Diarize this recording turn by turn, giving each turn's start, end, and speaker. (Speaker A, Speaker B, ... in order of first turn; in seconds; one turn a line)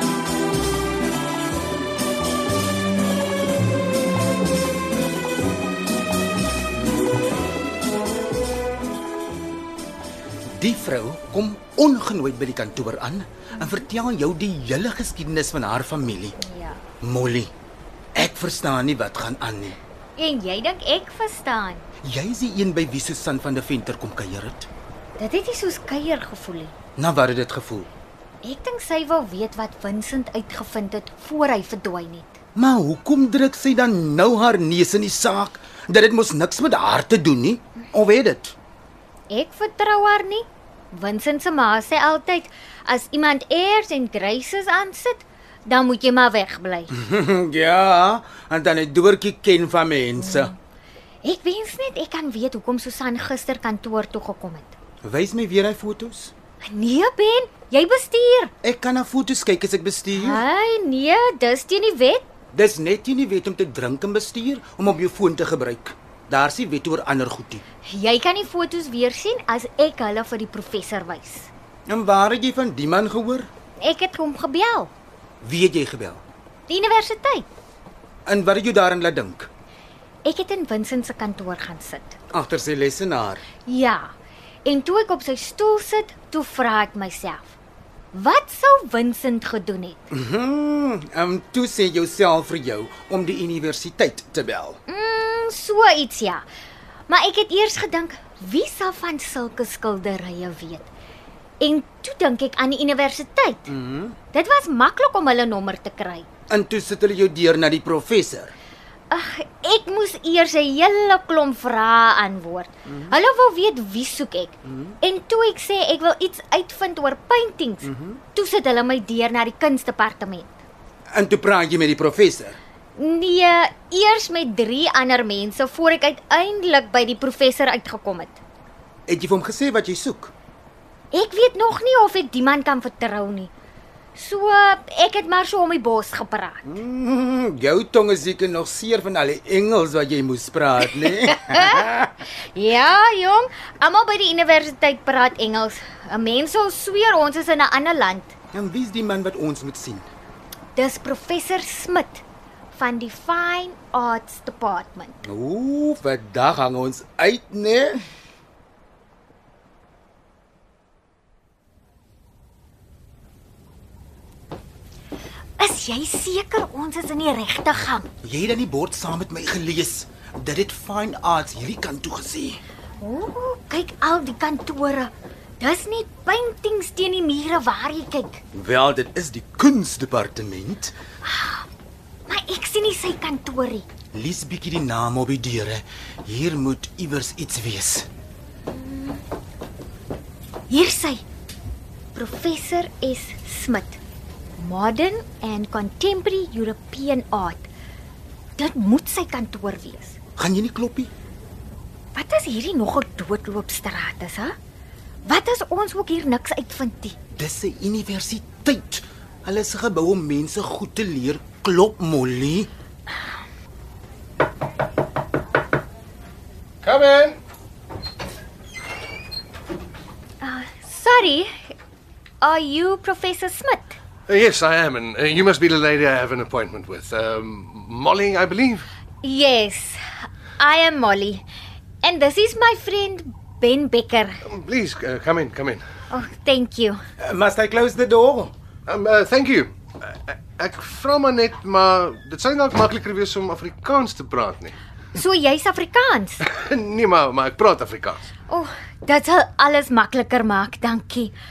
Speaker A: 10.6-16.4
Speaker B: 16.4-16.8
Speaker A: 17.0-17.5
Speaker A: 18.1-19.8
Speaker B: 20.1-21.8
Speaker A: 22.0-24.7
Speaker B: 25.2-26.7
Speaker A: 27.0-27.9
Speaker B: 28.4-32.4
Speaker A: 32.5-38.5
Speaker B: 39.3-46.9
Speaker A: 46.9-50.5
Speaker B: 50.2-50.5
Speaker B: 51.2-54.8
Speaker A: 55.0-56.3
Speaker B: 56.6-58.5
Speaker A: 58.6-60.4
Speaker B: 60.1-62.3
Speaker A: 62.5-67.6
Speaker B: 67.8-71.5
Speaker A: 71.9-73.5
Speaker B: 73.8-74.9
Speaker A: 75.4-76.2
Speaker B: 76.7-77.5
Speaker A: 78.2-79.5
Speaker B: 80.2-82.2
Speaker A: 82.3-83.4
Speaker B: 83.6-84.1
Speaker B: 84.6-87.6
Speaker B: 88.1-90.1
Speaker A: 90.1-94.8
Speaker B: 94.9-96.5
Speaker B: 97.1-100.9
Speaker B: 101.6-103.7
Speaker A: 103.7-104.2
Speaker B: 104.3-106.3
Speaker A: 106.5-108.5
Speaker B: 109.1-120.6
Speaker A: 112.8-113.2
Speaker A: 114.7-115.0
Speaker A: 117.8-118.2
Speaker A: 121.1-122.6
Speaker B: 122.9-128.4
Speaker A: 129.1-130.3
Speaker B: 131.1-133.5
Speaker B: 134.1-136.8
Speaker A: 136.6-142.1
Speaker B: 140.9-148.3
Speaker A: 148.5-150.1
Speaker B: 150.7-155.2
Speaker A: 155.2-158.0
Speaker B: 165.6-168.1
Speaker A: 168.2-172.6
Speaker B: 173.0-178.4
Speaker A: 178.5-180.9
Speaker B: 181.2-181.7
Speaker B: 182.3-183.9
Speaker A: 184.1-188.1
Speaker B: 188.7-189.2
Speaker B: 190.7-191.2
Speaker B: 192.1-194.0
Speaker B: 194.6-197.7
Speaker B: 198.6-200.2
Speaker A: 200.4-201.1
Speaker B: 202.1-204.5
Speaker B: 205.2-207.2
Speaker A: 207.3-212.7
Speaker C: 216.8-217.4
Speaker B: 220.4-221.7
Speaker B: 222.4-224.0
Speaker C: 224.3-228.8
Speaker B: 229.2-230.0
Speaker B: 230.6-231.4
Speaker B: 232.0-234.4
Speaker C: 234.4-235.8
Speaker B: 236.1-237.0
Speaker A: 237.2-238.5
Speaker C: 238.9-244.8
Speaker B: 245.1-246.4
Speaker C: 246.4-248.3
Speaker B: 248.5-251.3